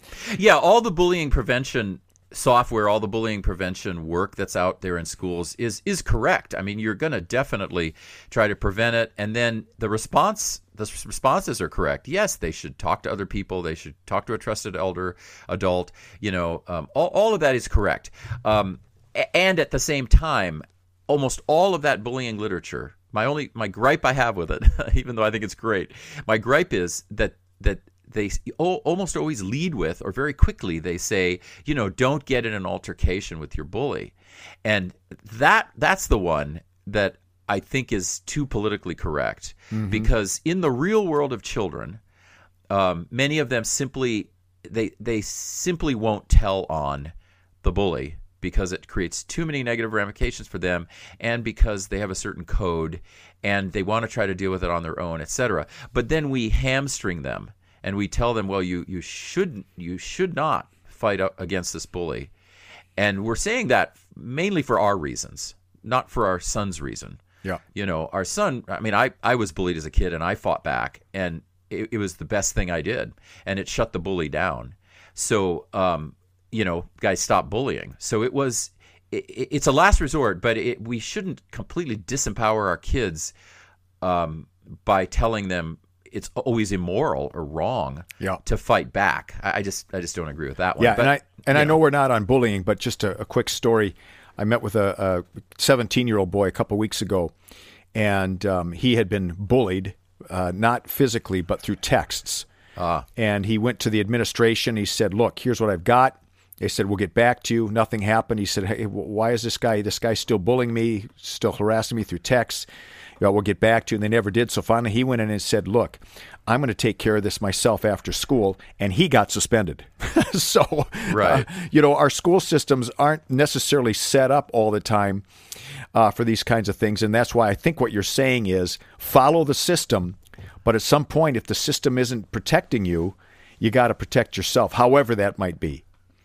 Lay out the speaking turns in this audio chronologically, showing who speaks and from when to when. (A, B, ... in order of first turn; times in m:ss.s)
0:00.3-0:34.1 A
0:34.6-0:42.0 A
0:39.7-0:40.1 B
0:42.7-1:02.3 A
1:03.0-1:07.2 A
1:07.7-1:23.3 A
1:24.0-1:31.8 A
1:30.8-1:37.3 B
1:37.9-1:42.4 B
1:42.8-1:43.1 A
1:43.2-1:52.7 B
1:53.2-2:05.2 B
2:01.1-2:01.5 A
2:05.9-2:15.8 B